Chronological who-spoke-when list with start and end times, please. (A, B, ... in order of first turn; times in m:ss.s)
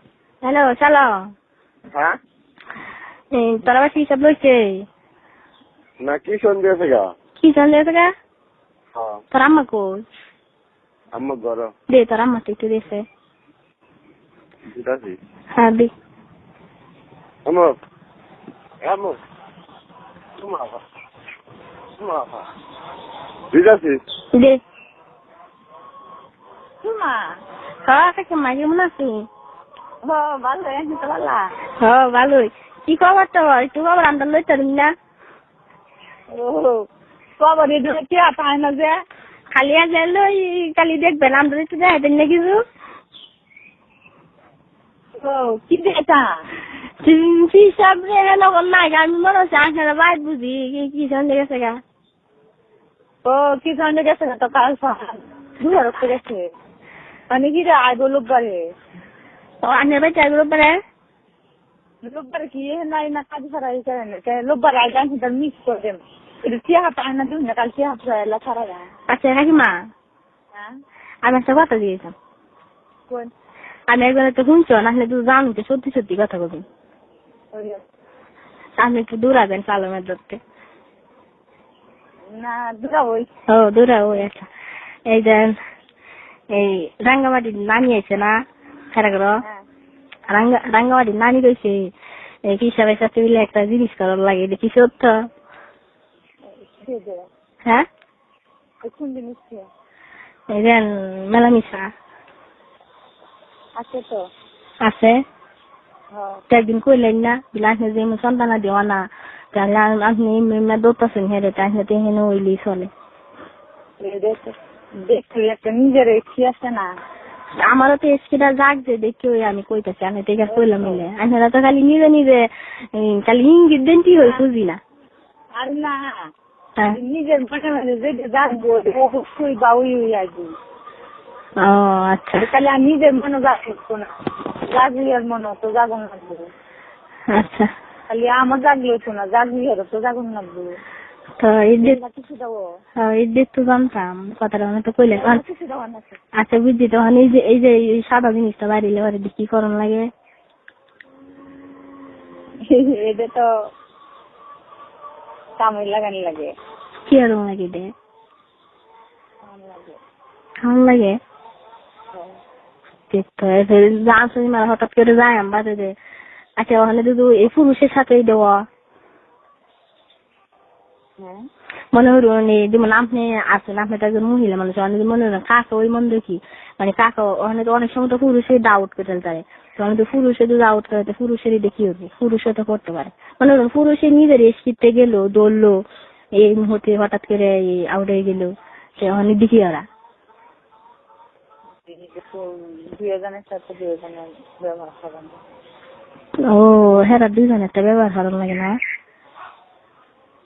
0:00.4-0:01.2 A
0:03.4-0:04.8 A
0:06.0-0:07.1 B
0:07.4-0:08.1 A
0:09.3-0:10.0 A
0:11.1-0:11.7 B
0:11.9-0:13.0 A
0:14.7-0:15.2 B
0:15.6-0:15.9 A
0:17.4-0:17.7 B
0:18.8-0:19.2 B
0:20.4-0:20.8 B
0:22.0-0:22.4 B
0:23.5-0:24.0 B
0:24.3-0:24.6 A
0:26.8-0:27.4 C
0:27.8-0:29.2 A
0:30.0-0:31.5 C
0:31.8-0:34.9 A
0:36.3-0:36.8 C
0:37.4-0:38.9 C
0:39.5-0:42.6 A
0:45.2-0:46.3 C
0:47.0-0:51.8 A
0:53.2-0:56.4 C
0:57.3-0:58.6 C
0:59.6-1:00.8 A
1:02.0-1:08.8 C
1:09.1-1:09.8 A
1:11.2-1:12.1 A
1:13.9-1:16.6 A
1:17.5-1:17.8 C
1:18.8-1:20.4 A
1:22.3-1:23.3 C
1:23.5-1:24.5 A
1:25.1-1:25.6 A
1:26.5-1:28.3 A
1:28.9-1:29.4 A
1:30.3-1:31.9 A
1:32.5-1:35.1 A
1:36.4-1:37.2 C
1:38.8-1:39.7 C
1:40.5-1:41.9 A
1:43.8-1:44.2 C
1:44.8-1:45.2 A
1:46.1-1:46.4 C
1:46.5-1:52.9 A
1:54.0-1:56.9 C
1:57.7-2:04.8 A
2:00.5-2:01.0 C
2:05.6-2:06.0 C
2:06.9-2:10.5 C
2:11.6-2:12.4 A
2:12.4-2:14.1 C
2:14.7-2:16.4 C
2:17.3-2:17.7 A
2:18.1-2:20.7 C
2:21.4-2:22.0 A
2:21.8-2:22.6 C
2:23.0-2:25.4 A
2:25.1-2:26.2 C
2:26.4-2:30.1 A
2:32.7-2:33.5 C
2:35.6-2:36.5 C
2:37.1-2:37.9 A
2:39.4-2:40.0 C
2:40.6-2:41.2 A
2:42.1-2:42.4 C
2:43.1-2:45.9 A
2:46.6-2:48.6 A
2:51.2-2:51.4 C
2:51.9-3:05.8 A
3:06.4-3:09.8 A
3:11.8-3:15.4 C
3:16.5-3:18.8 A